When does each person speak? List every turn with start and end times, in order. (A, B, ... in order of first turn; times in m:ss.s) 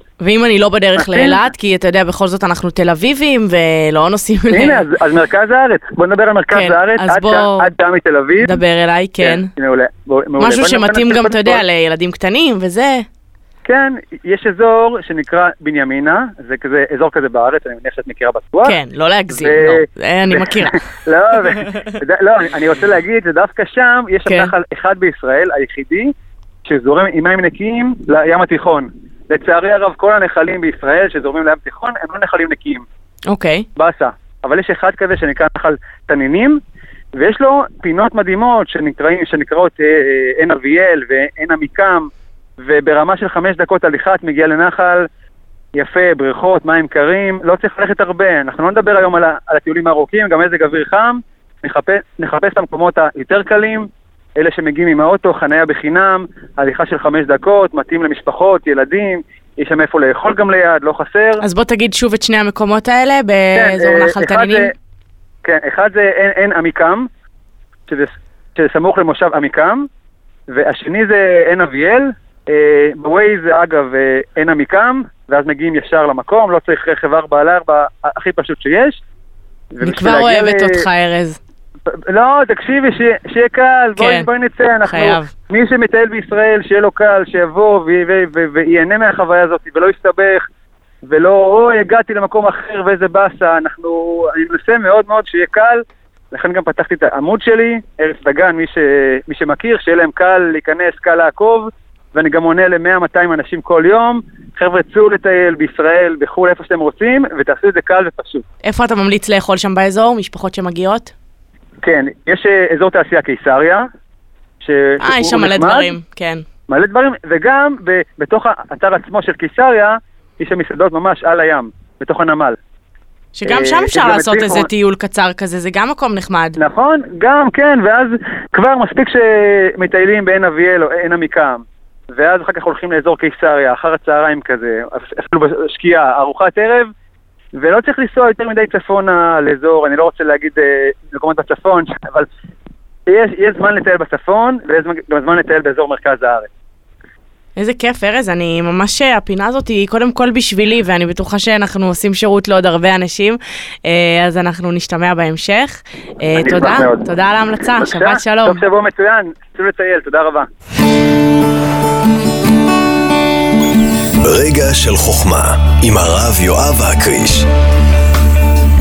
0:00.2-0:04.9 A
0:01.0-0:01.4 B
0:04.5-0:08.6 B
0:06.5-0:07.7 A
0:08.4-0:09.5 A
0:09.2-0:11.6 B
0:10.4-0:13.0 A
0:13.6-0:18.7 B
0:18.6-0:20.8 A
0:19.3-0:26.1 B
0:21.4-0:21.9 A
0:24.2-0:24.5 A
0:26.6-0:32.8 B
0:33.3-0:33.6 A
0:33.8-0:36.6 B
0:37.2-0:42.1 B
0:42.6-0:45.1 B
0:45.7-1:01.4 B
1:01.4-1:04.7 A
1:03.5-1:04.7 B
1:05.4-1:07.1 B
1:07.9-1:09.9 B
1:10.5-1:19.0 B
1:19.7-1:20.8 B
1:19.8-1:21.4 A
1:22.1-1:30.4 B
1:24.0-1:24.3 A
1:24.8-1:25.3 A
1:31.1-1:48.4 B
1:48.6-1:51.1 A
1:51.8-1:53.9 B
1:54.6-1:55.9 B
1:55.0-1:56.4 A
1:56.7-2:02.6 B
2:03.4-2:06.6 A
2:03.5-2:04.7 B
2:06.6-2:16.9 B
2:17.6-2:22.3 B
2:23.1-2:26.5 B
2:27.6-2:38.6 A
2:36.3-2:37.1 B
2:37.7-2:40.5 B
2:44.2-2:47.4 C